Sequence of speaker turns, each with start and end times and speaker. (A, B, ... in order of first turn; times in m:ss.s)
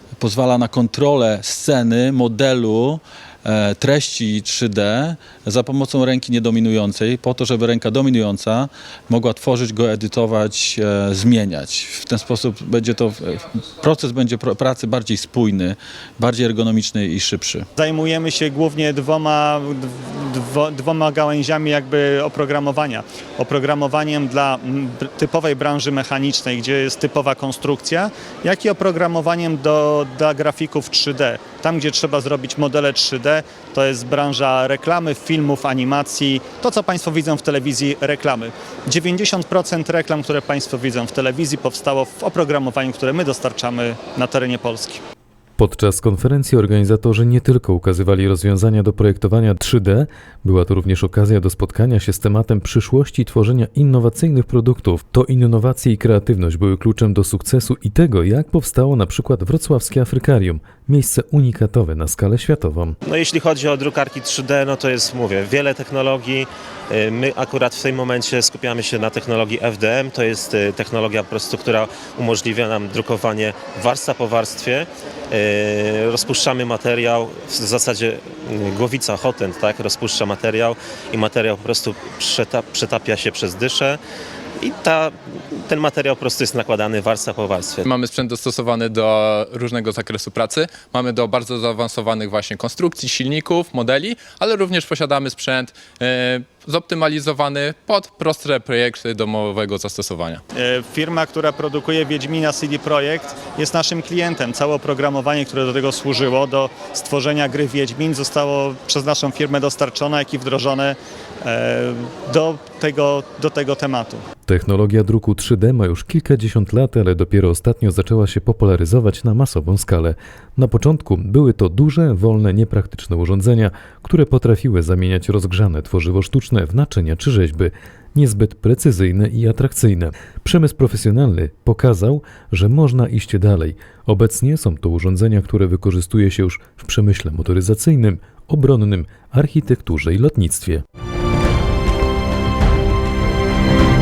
0:00.2-0:17.7 A
0:17.8-0:45.0 B
0:45.6-1:03.0 C
1:03.1-1:24.0 D
1:24.6-1:27.9 D
1:27.8-1:40.4 E
1:40.5-1:54.2 B
1:54.5-2:20.8 C